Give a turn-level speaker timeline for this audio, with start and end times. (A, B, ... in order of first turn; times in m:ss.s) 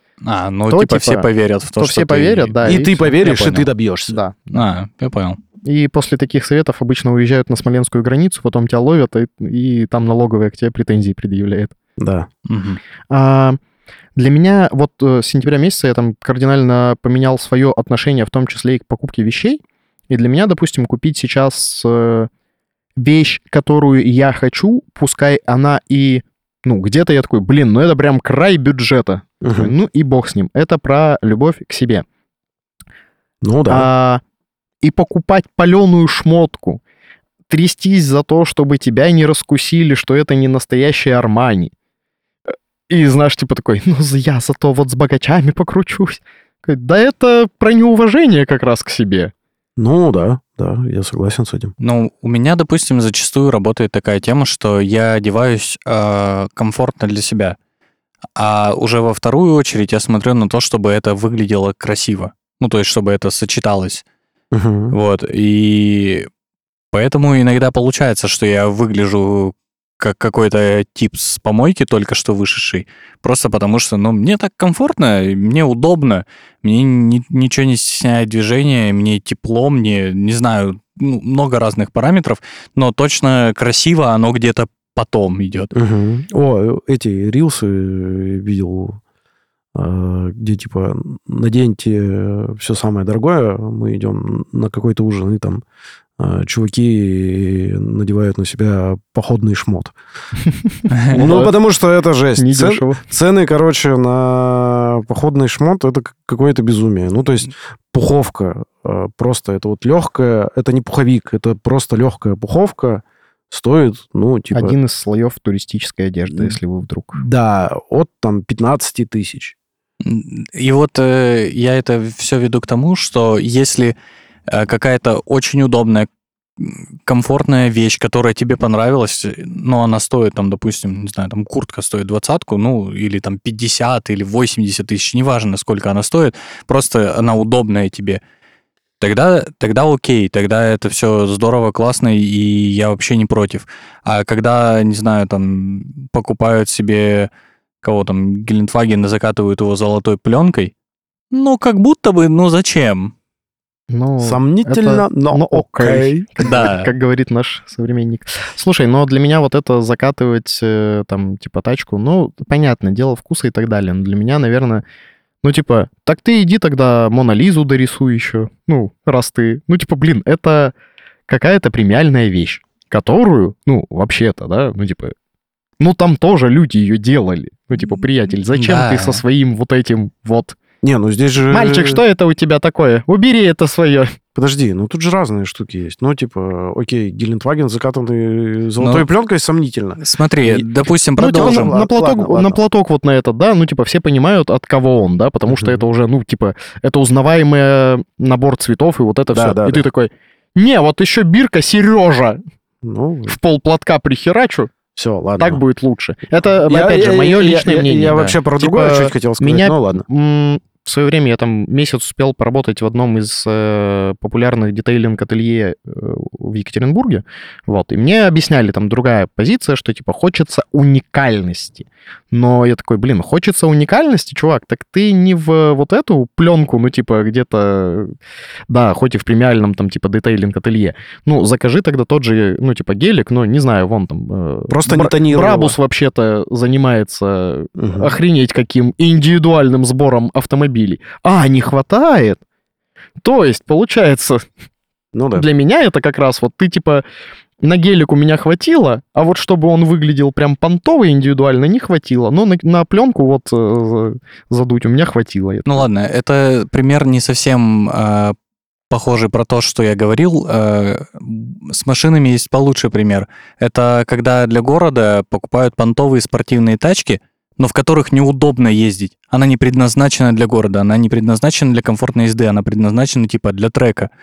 0:00.2-0:03.7 A
0:00.7-0:03.1 B
0:02.6-0:04.2 C
0:04.1-0:04.6 B
0:04.5-0:05.4 A
0:05.6-0:11.7 B
0:12.0-0:12.3 C
0:12.5-0:12.8 A
0:13.1-0:13.6 B
0:14.2-0:22.3 B
0:23.0-0:32.0 B
0:29.4-0:29.7 C
0:33.4-0:33.9 C
0:33.7-0:34.2 B
0:34.8-0:36.8 B
0:37.5-0:41.7 B
0:42.9-0:49.3 B
0:49.8-0:51.7 C
0:51.8-0:57.6 A
0:58.4-1:04.0 A
1:04.5-1:04.9 C
1:04.9-1:06.3 A
1:06.9-1:25.7 A
1:25.7-1:29.0 C
1:29.8-1:35.6 C
1:36.2-1:40.0 C
1:40.4-1:41.5 B
1:41.0-1:41.2 A
1:41.1-1:54.8 C
1:42.4-1:43.0 B
1:54.5-1:57.2 B
1:56.3-1:56.6 C
1:57.1-1:59.6 C
2:00.0-2:04.0 A
2:04.5-2:18.2 A
2:19.0-2:27.3 A
2:27.8-2:30.7 A
2:31.3-2:33.1 A
2:33.9-2:44.8 B
2:34.2-2:36.4 C
2:36.4-2:36.9 A
2:45.4-2:50.7 B
2:51.3-2:55.1 B
2:55.8-3:00.6 B
2:58.5-2:59.2 A
3:00.8-3:02.0 C
3:01.5-3:04.2 B
3:04.4-3:12.6 C
3:08.8-3:09.1 A
3:10.0-3:11.7 A
3:11.2-3:22.4 B
3:19.3-3:19.9 C
3:22.8-3:23.4 C
3:23.3-3:24.7 B
3:25.0-3:25.6 C
3:25.4-3:48.1 B
3:26.7-3:30.0 C
3:48.7-4:02.4 B
3:54.7-3:55.8 C
3:57.8-3:58.1 C
4:03.2-4:04.4 B
4:05.1-4:05.5 C
4:05.3-4:07.0 B
4:07.6-4:15.8 B
4:15.7-4:18.4 A
4:18.9-4:34.1 A